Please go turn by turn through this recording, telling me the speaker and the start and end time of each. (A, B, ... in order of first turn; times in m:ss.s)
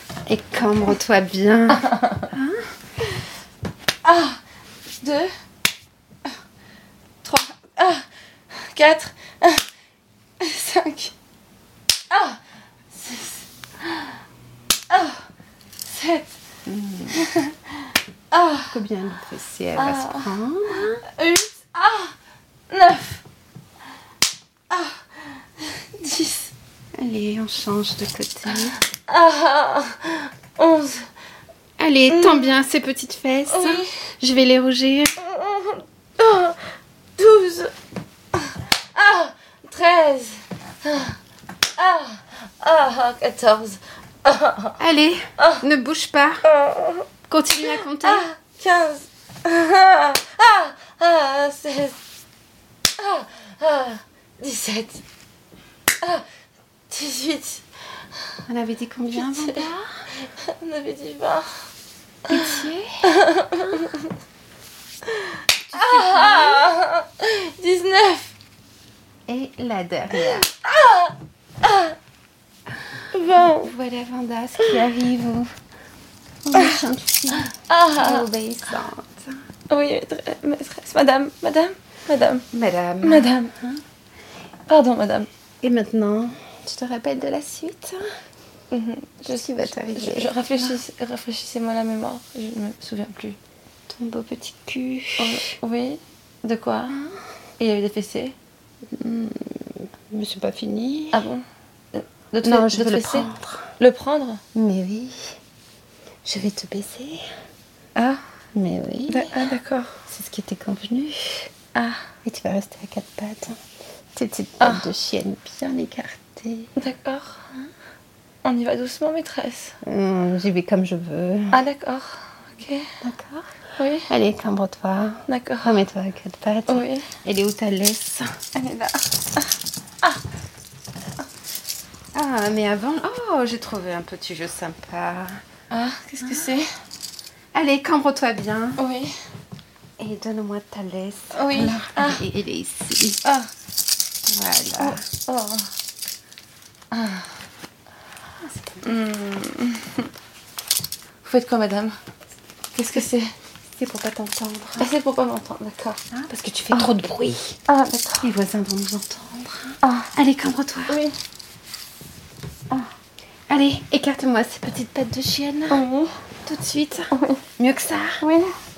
0:00.3-0:02.7 A
0:01.9-0:02.2 B
0:04.0-0:04.4 B
0:05.0-0:05.3 B
0:07.2-0:09.6 B
0:10.4-0:11.1 B
0:12.1-0:12.4 B
0:12.9-0:14.1 B
0:14.9-0:15.2 B
0:15.8-0:16.4 B
0:16.6-0:17.3 A
0:17.1-0:17.6 B
0:18.3-0:18.7 B
0:18.7-0:21.0 A
0:19.8-0:22.1 B
0:22.7-0:23.2 B
0:24.7-0:25.0 B
0:25.8-0:26.5 B
0:27.0-0:28.8 A
0:28.8-0:31.1 B
0:31.8-0:35.2 A
0:32.1-0:32.6 B
0:33.5-0:33.9 B
0:35.2-0:36.6 B
0:37.2-0:37.7 B
0:38.4-0:41.2 B
0:41.8-0:44.8 B
0:44.8-0:46.5 A
0:46.5-0:47.1 B
0:47.3-0:48.3 A
0:47.6-0:52.0 B
0:53.0-0:55.0 B
0:56.9-0:57.6 B
0:58.5-1:00.1 A
0:59.2-0:59.6 B
1:00.2-1:01.7 B
1:02.3-1:03.2 A
1:03.2-1:04.1 B
1:05.1-1:08.3 B
1:05.7-1:06.7 A
1:09.3-1:10.5 A
1:10.4-1:11.9 B
1:13.1-1:13.7 B
1:13.3-1:15.5 A
1:16.4-1:19.4 A
1:17.6-1:18.3 B
1:19.7-1:22.4 B
1:22.5-1:23.8 A
1:23.0-1:23.5 B
1:24.7-1:25.3 B
1:25.6-1:28.0 A
1:28.7-1:33.4 B
1:29.2-1:30.8 A
1:33.9-1:35.5 A
1:35.2-1:37.0 B
1:36.9-1:37.2 A
1:37.6-1:38.4 B
1:38.9-1:41.2 A
1:41.1-1:43.3 B
1:42.4-1:43.7 A
1:43.8-1:44.4 B
1:44.5-1:45.4 A
1:46.2-1:47.2 A
1:48.0-1:48.2 B
1:48.5-1:49.5 A
1:49.1-1:49.9 B
1:50.1-1:51.5 A
1:51.8-1:52.0 B
1:52.2-1:53.6 A
1:54.1-1:56.7 A
1:56.8-1:57.4 B
1:58.4-1:59.8 B
1:59.8-2:01.6 A
2:01.5-2:02.9 B
2:03.0-2:03.6 A
2:03.8-2:04.1 B
2:04.1-2:08.3 A
2:05.3-2:05.8 B
2:06.7-2:07.1 B
2:08.6-2:09.0 B
2:12.1-2:15.4 A
2:15.7-2:16.7 B
2:16.2-2:16.6 A
2:17.5-2:18.8 A
2:18.8-2:19.2 B
2:20.0-2:23.2 A
2:21.3-2:22.2 B
2:23.2-2:23.5 B
2:24.3-2:25.0 A
2:24.8-2:25.7 B
2:26.9-2:27.3 B
2:28.4-2:28.9 A
2:28.8-2:30.1 B
2:31.2-2:32.0 B
2:32.8-2:33.3 B
2:33.8-2:34.9 A
2:34.8-2:36.0 B
2:36.1-2:37.6 A
2:37.7-2:38.3 B
2:38.2-2:41.0 A
2:39.8-2:40.1 B
2:40.9-2:41.2 B
2:43.5-2:45.8 A
2:45.7-2:46.1 B
2:46.4-2:48.3 A
2:47.1-2:47.4 B
2:48.2-2:48.6 B